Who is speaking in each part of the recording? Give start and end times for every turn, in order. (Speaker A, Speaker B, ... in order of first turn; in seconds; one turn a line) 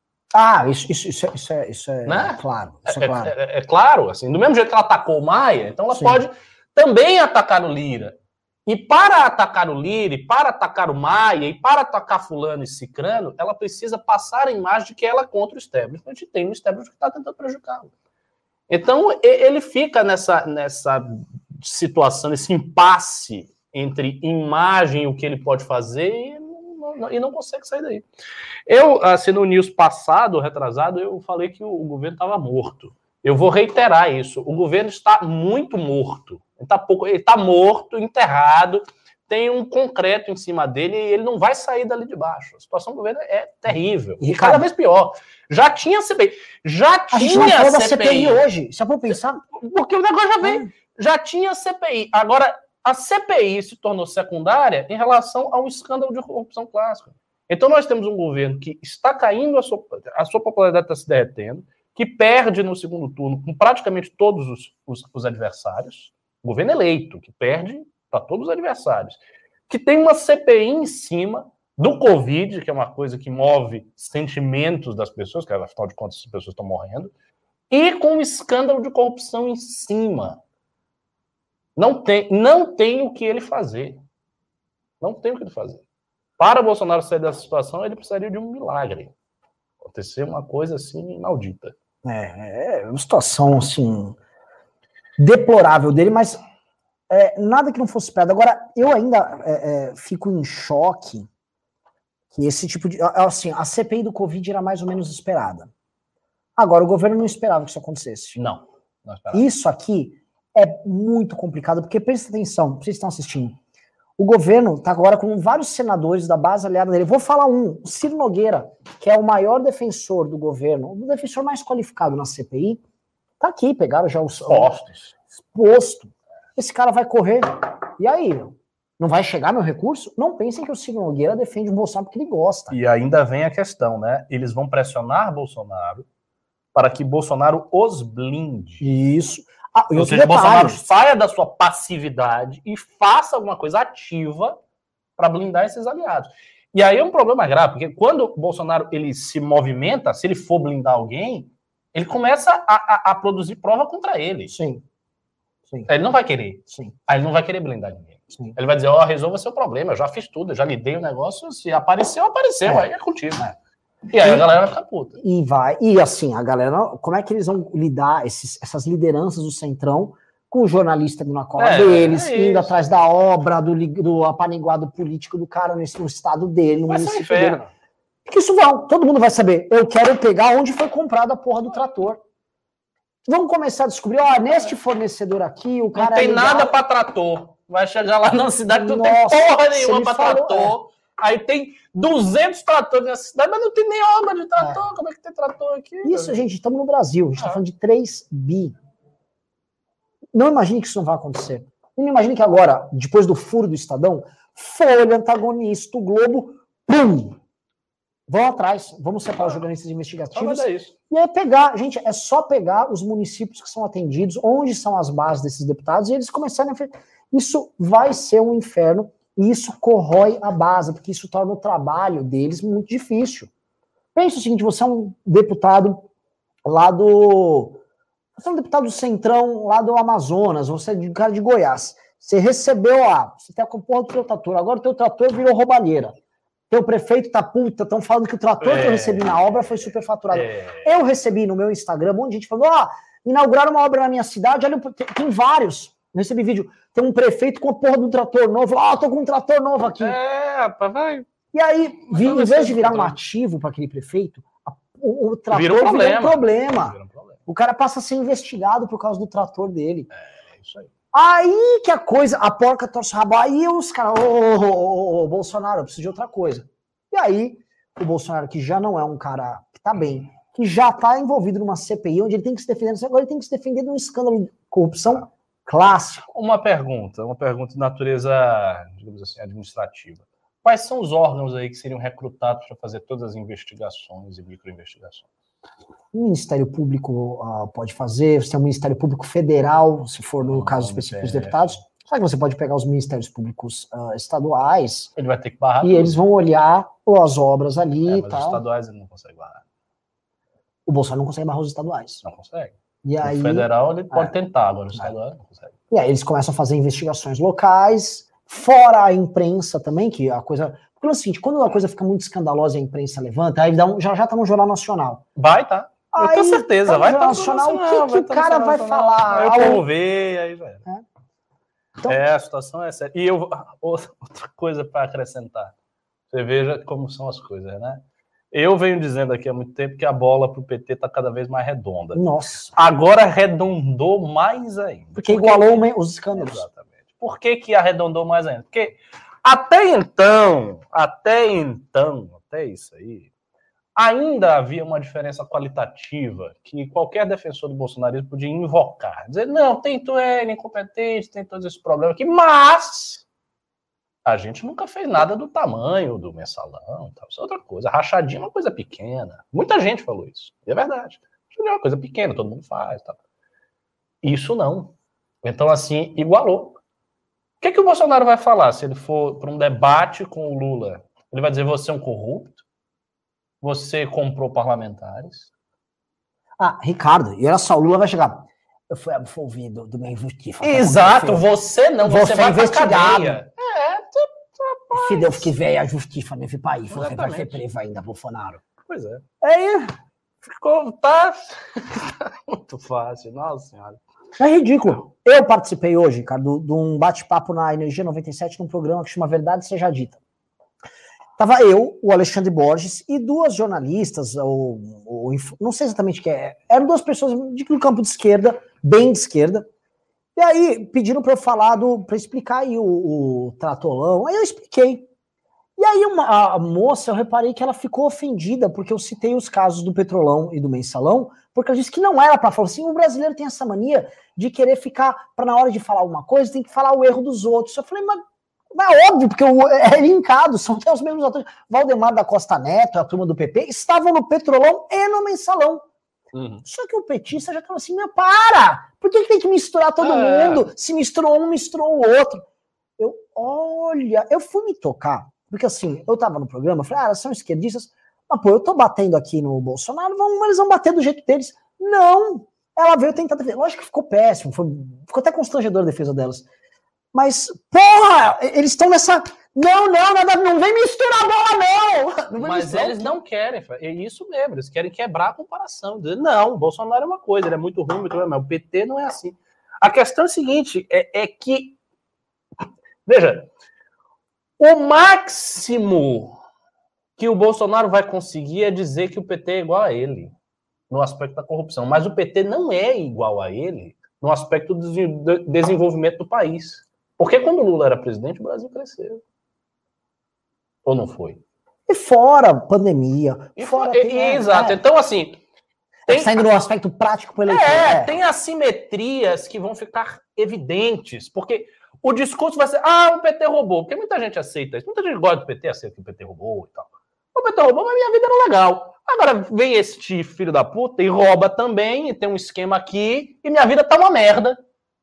Speaker A: 0.3-3.3
Speaker B: 2.1-17.9
Speaker A: 5.9-6.2
Speaker B: 18.7-28.1
Speaker B: 28.7-48.4
Speaker A: 44.2-44.7
Speaker A: 47.1-49.5
Speaker B: 49.5-77.1
Speaker A: 50.4-50.7
Speaker B: 77.7-80.4
Speaker B: 81.8-84.0
Speaker B: 85.0-85.8
Speaker B: 86.4-89.1
Speaker B: 89.8-91.8
Speaker A: 92.0-94.2
Speaker A: 95.2-96.4
Speaker A: 97.1-101.3
Speaker A: 102.3-105.7
Speaker A: 106.6-108.4
Speaker B: 108.4-109.5
Speaker A: 109.3-113.6
Speaker A: 114.2-122.8
Speaker A: 123.4-124.8
Speaker B: 124.4-125.1
Speaker A: 125.5-132.8
Speaker B: 132.7-136.1
Speaker B: 136.7-138.9
Speaker A: 138.8-140.8
Speaker B: 139.9-144.6
Speaker B: 145.2-154.5
Speaker A: 154.5-154.8
Speaker B: 155.9-163.5
Speaker A: 156.7-156.9
Speaker B: 164.1-165.2
Speaker A: 164.2-164.5
Speaker A: 165.2-177.6
Speaker B: 171.6-172.8
Speaker B: 176.9-177.7
Speaker A: 178.3-182.2
Speaker A: 183.3-186.8
Speaker B: 185.9-196.4
Speaker A: 188.7-190.8
Speaker A: 196.0-198.8
Speaker A: 200.3-207.4
Speaker A: 208.3-223.5
Speaker B: 210.3-210.9
Speaker A: 224.2-226.1
Speaker A: 226.7-227.8
Speaker A: 228.4-236.2
Speaker A: 236.7-250.2
Speaker B: 238.6-240.9
Speaker B: 250.0-251.3
Speaker A: 251.5-260.1
Speaker B: 252.1-253.2
Speaker B: 255.5-257.4
Speaker B: 260.1-260.9
Speaker A: 261.1-276.3
Speaker B: 276.3-285.3
Speaker A: 286.1-295.1
Speaker B: 290.4-291.8
Speaker B: 295.2-296.2
Speaker A: 295.8-298.6
Speaker B: 298.1-299.6
Speaker A: 300.9-302.2
Speaker B: 302.2-305.8
Speaker A: 303.0-304.3
Speaker A: 305.9-315.2
Speaker B: 315.4-320.9
Speaker A: 316.1-319.8
Speaker B: 322.1-325.7
Speaker B: 326.3-332.2
Speaker A: 332.1-332.8
Speaker B: 332.7-343.3
Speaker A: 335.2-336.6
Speaker B: 344.0-353.2
Speaker B: 354.2-363.2
Speaker B: 364.2-366.8
Speaker B: 367.6-372.6
Speaker B: 373.6-375.5
Speaker A: 376.6-381.4
Speaker B: 380.6-385.5
Speaker A: 382.0-383.4
Speaker A: 384.9-388.6
Speaker B: 386.9-387.6
Speaker B: 388.8-389.2
Speaker A: 389.4-389.9
Speaker B: 390.4-394.0
Speaker A: 394.4-400.2
Speaker A: 401.4-409.7
Speaker A: 410.4-415.1
Speaker A: 415.8-435.9
Speaker B: 436.3-436.6
Speaker A: 436.6-442.4
Speaker B: 440.0-440.7
Speaker A: 443.0-456.5
Speaker A: 457.1-463.1
Speaker B: 462.3-471.8
Speaker B: 473.1-473.5
Speaker B: 474.6-476.4
Speaker B: 477.2-480.3
Speaker B: 480.9-489.2
Speaker B: 490.9-491.4
Speaker A: 491.9-494.8
Speaker B: 493.6-495.4
Speaker A: 496.1-498.2
Speaker B: 496.1-496.3
Speaker B: 497.5-514.6